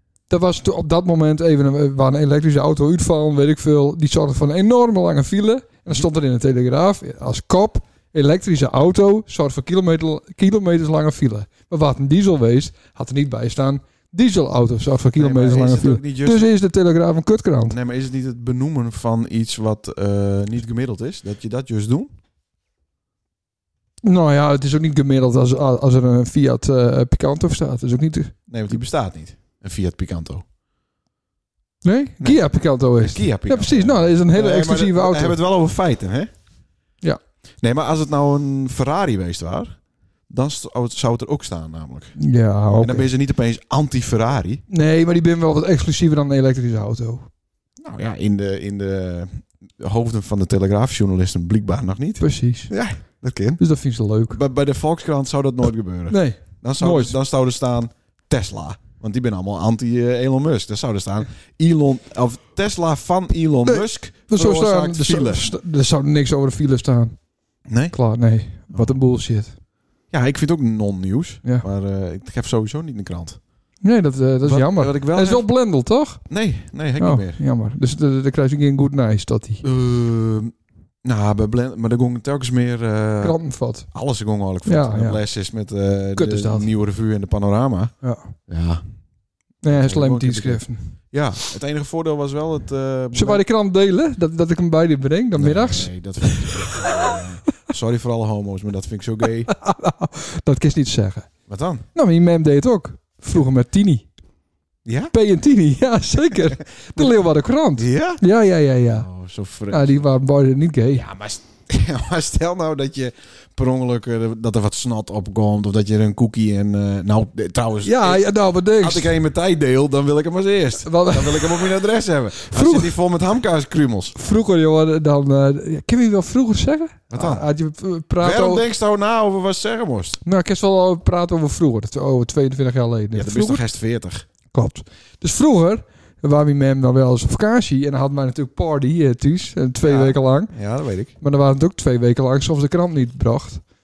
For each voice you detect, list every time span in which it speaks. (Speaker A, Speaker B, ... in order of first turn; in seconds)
Speaker A: 0.3-17.8, 24.0-28.3, 31.8-35.4, 42.2-43.1, 44.7-47.3, 52.2-52.7, 53.6-54.4, 56.1-57.2, 63.6-67.2, 67.9-69.5, 73.8-76.2, 77.0-79.6, 83.2-83.9, 84.6-85.2, 86.1-86.7, 88.0-88.3, 89.6-90.9, 93.1-97.2, 99.5-101.3, 101.9-104.1, 105.1-109.1, 109.7-111.0, 117.8-119.1, 120.8-123.0, 124.2-128.6, 130.2-133.6, 134.5-140.5, 141.2-143.6
Speaker B: 15.2-16.5, 17.7-22.1, 28.5-30.4, 32.2-36.3, 37.6-39.8, 40.3-42.2, 42.8-44.6, 47.8-53.6, 54.3-65.5, 67.7-68.0, 68.7-69.0, 70.1-73.4, 74.4-75.5, 76.3-77.4, 79.6-80.5, 81.0-83.4, 83.9-87.9, 88.5-88.8, 89.7-93.4, 95.3-99.5, 101.5-101.8, 104.8-105.1, 107.8-108.2, 108.9-110.0, 110.9-124.2, 127.1-127.5, 128.2-130.2, 133.1-134.2, 139.8-141.1